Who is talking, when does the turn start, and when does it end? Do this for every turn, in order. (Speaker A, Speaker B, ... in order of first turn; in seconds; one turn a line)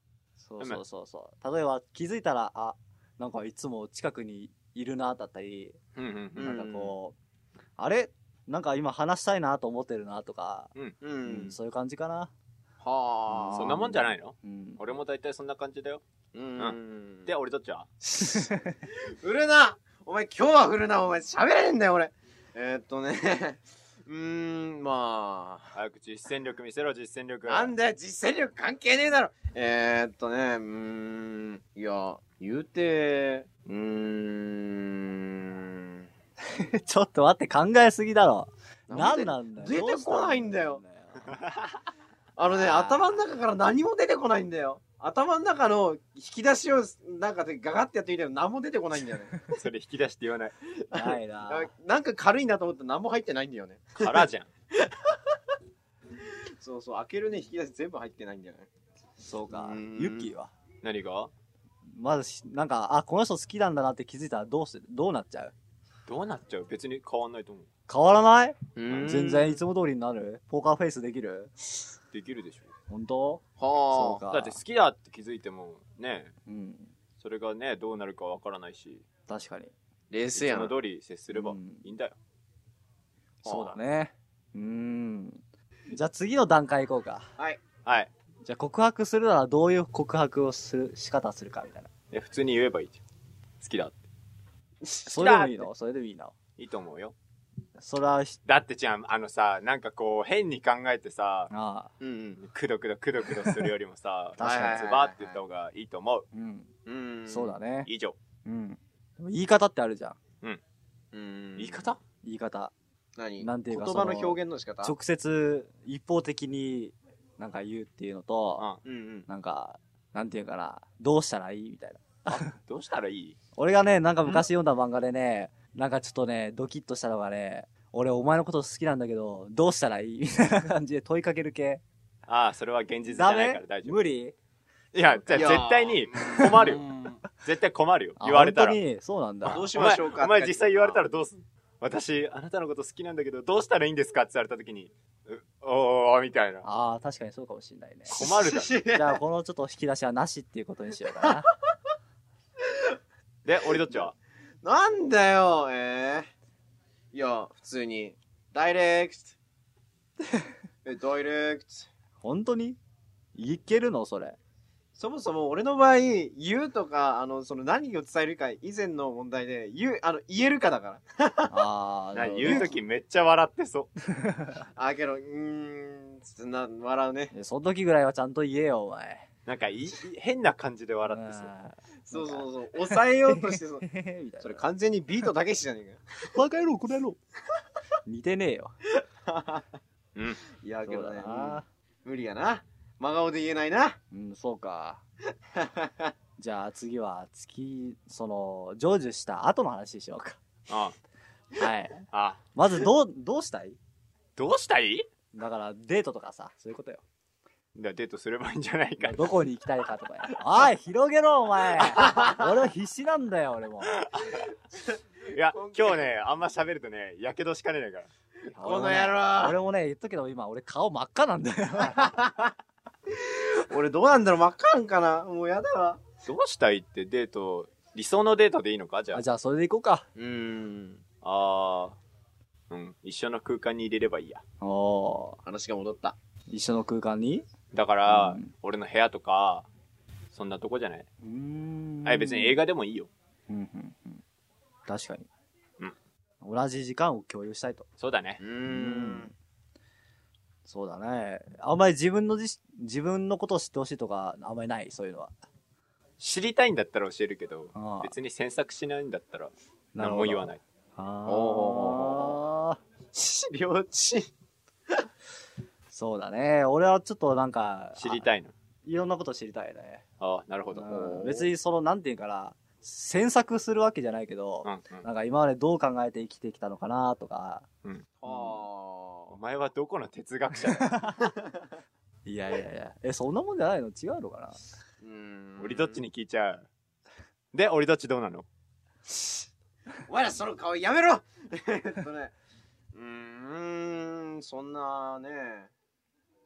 Speaker A: 0.4-5.8
Speaker B: 6.0-6.5
Speaker C: 6.4-6.9
Speaker A: 6.4-7.2
Speaker A: 7.8-10.7
Speaker C: 11.0-11.5
Speaker A: 11.2-12.3
Speaker C: 12.8-13.9
Speaker A: 13.3-14.9
Speaker B: 13.5-16.0
Speaker C: 16.3-17.3
Speaker B: 16.6-17.9
Speaker A: 18.1-18.7
Speaker C: 18.9-25.7
Speaker B: 25.7-27.7
Speaker C: 27.5-36.0
Speaker A: 36.5-41.4
Speaker C: 38.9-40.8
Speaker C: 42.4-49.4
Speaker A: 42.5-43.1
Speaker B: 49.5-50.5
Speaker C: 50.8-54.3
Speaker A: 50.9-51.7
Speaker B: 53.9-54.5
Speaker C: 54.8-55.1
Speaker C: 56.6-58.7
Speaker A: 59.2-60.5
Speaker C: 59.5-60.3
Speaker B: 60.8-61.3
Speaker A: 62.0-65.5
Speaker B: 66.1-67.7
Speaker A: 67.9-71.8
Speaker C: 68.8-69.6
Speaker B: 68.9-69.1
Speaker B: 72.1-72.7
Speaker A: 72.9-73.4
Speaker C: 73.6-74.2
Speaker A: 73.9-74.6
Speaker B: 74.3-76.3
Speaker A: 76.5-76.9
Speaker B: 77.2-79.0
Speaker A: 79.3-79.7
Speaker C: 80.1-80.8
Speaker B: 80.3-82.1
Speaker A: 81.3-81.8
Speaker C: 83.4-83.8
Speaker A: 83.4-85.4
Speaker A: 85.9-87.3
Speaker B: 87.8-88.1
Speaker A: 88.4-91.9
Speaker B: 92.1-93.0
Speaker B: 93.6-94.0
Speaker C: 94.8-95.1
Speaker A: 95.0-96.3
Speaker B: 95.1-95.7
Speaker B: 96.6-97.1
Speaker A: 97.8-98.4
Speaker B: 98.5-101.5
Speaker A: 101.5-101.9
Speaker C: 102.0-102.4
Speaker B: 102.4-106.2
Speaker A: 104.4-104.9
Speaker C: 104.4-105.4
Speaker A: 106.3-106.7
Speaker C: 106.8-107.5
Speaker A: 107.3-107.9
Speaker B: 107.8-108.2
Speaker A: 108.4-110.2
Speaker C: 111.1-111.9
Speaker B: 111.5-112.0
Speaker A: 112.2-112.7
Speaker C: 113.2-114.9
Speaker A: 113.4-118.7
Speaker C: 118.8-119.3
Speaker A: 119.3-122.5
Speaker B: 122.2-123.3
Speaker A: 123.5-131.8
Speaker B: 132.3-134.0
Speaker A: 133.1-134.3
Speaker B: 134.9-136.8
Speaker A: 135.0-135.6
Speaker C: 135.3-137.2
Speaker A: 136.2-136.6
Speaker B: 137.3-138.8
Speaker A: 138.2-139.7
Speaker B: 139.4-146.6
Speaker C: 139.5-141.0
Speaker A: 146.6-148.2
Speaker B: 148.1-148.8
Speaker C: 148.1-149.2
Speaker A: 148.9-151.5
Speaker B: 153.4-154.1
Speaker C: 154.6-156.3
Speaker C: 157.1-159.3
Speaker C: 160.8-161.9
Speaker A: 162.2-162.8
Speaker A: 163.3-164.4
Speaker C: 164.9-171.5
Speaker A: 171.5-172.8
Speaker B: 172.1-173.9
Speaker C: 172.2-172.6
Speaker A: 174.1-174.6
Speaker C: 174.8-177.3
Speaker A: 177.3-179.3
Speaker B: 179.4-181.5
Speaker A: 181.1-184.6
Speaker C: 182.1-183.8
Speaker C: 184.4-186.0
Speaker A: 186.3-187.2
Speaker A: 188.1-188.7
Speaker C: 189.3-189.6
Speaker B: 190.1-190.4
Speaker C: 190.6-194.0
Speaker A: 190.8-191.7
Speaker A: 194.1-195.0
Speaker C: 195.6-196.1
Speaker A: 196.4-200.4
Speaker B: 200.7-200.9
Speaker A: 201.6-202.0
Speaker B: 202.1-202.4
Speaker A: 202.5-203.8
Speaker B: 204.3-205.1
Speaker A: 205.3-207.0
Speaker B: 207.8-209.3
Speaker A: 209.0-214.0
Speaker C: 212.0-212.4
Speaker B: 213.9-214.5
Speaker B: 215.3-218.1
Speaker C: 215.5-216.1
Speaker C: 218.5-219.6
Speaker A: 218.6-222.2
Speaker C: 221.9-222.5
Speaker C: 223.2-226.0
Speaker B: 226.2-229.2
Speaker A: 229.1-230.1
Speaker C: 230.2-231.0
Speaker B: 231.2-231.9
Speaker B: 232.7-234.4
Speaker A: 234.6-235.4
Speaker C: 235.4-236.1
Speaker A: 236.5-237.4
Speaker B: 237.7-239.7
Speaker A: 238.1-238.5
Speaker B: 240.3-241.1
Speaker A: 241.2-242.6
Speaker B: 242.0-243.1
Speaker A: 243.5-244.2
Speaker A: 244.8-245.3
Speaker A: 246.4-247.8
Speaker B: 248.0-248.4
Speaker C: 248.4-249.3
Speaker A: 248.7-249.3
Speaker A: 250.6-255.3
Speaker B: 256.2-260.6
Speaker A: 257.7-258.1
Speaker A: 259.9-262.8
Speaker C: 261.2-262.4
Speaker C: 263.1-264.3
Speaker A: 265.9-268.3
Speaker B: 268.0-268.5
Speaker A: 268.8-270.0
Speaker B: 270.2-270.9
Speaker A: 270.7-277.6
Speaker C: 270.9-271.5
Speaker B: 274.6-275.0
Speaker C: 278.2-279.3
Speaker A: 278.3-278.6
Speaker B: 279.3-281.1
Speaker A: 280.7-281.3
Speaker A: 282.2-284.7
Speaker C: 285.0-286.0
Speaker B: 285.6-286.6
Speaker B: 287.5-288.4
Speaker C: 290.1-292.3
Speaker C: 292.9-295.7